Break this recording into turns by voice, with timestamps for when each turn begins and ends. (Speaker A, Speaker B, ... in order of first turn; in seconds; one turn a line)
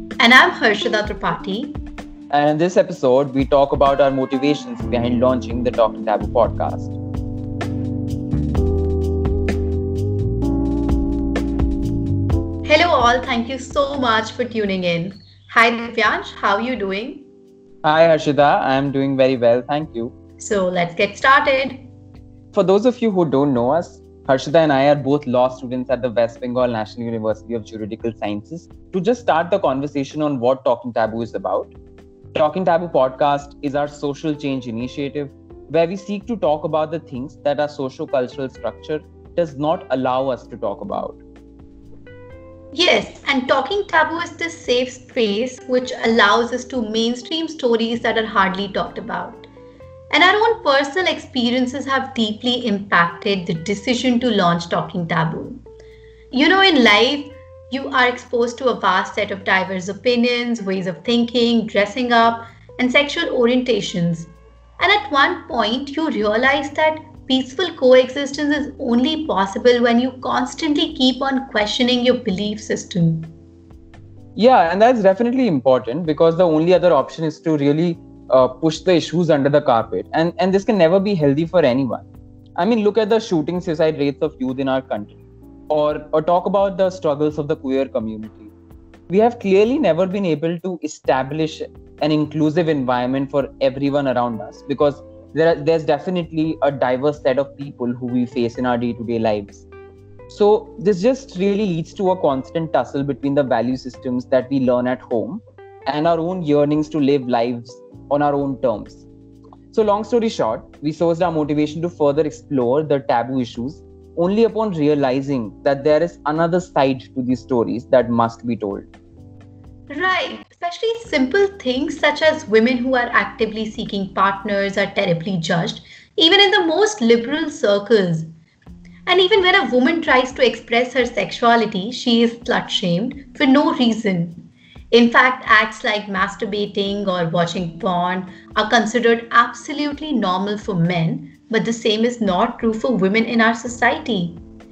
Speaker A: 0.2-1.8
Speaker B: 2.3-6.9
Speaker A: 12.6-17.3
Speaker B: 17.8-20.1
Speaker A: 20.4-21.9
Speaker B: 22.5-31.7
Speaker B: 32.3-41.2
Speaker A: 42.7-49.5
Speaker A: 50.1-55.6
Speaker A: 56.3-73.3
Speaker B: 74.3-88.5
Speaker B: 89.1-99.7
Speaker B: 100.3-109.1
Speaker B: 109.7-118.8
Speaker A: 119.9-128.3
Speaker A: 129.1-144.4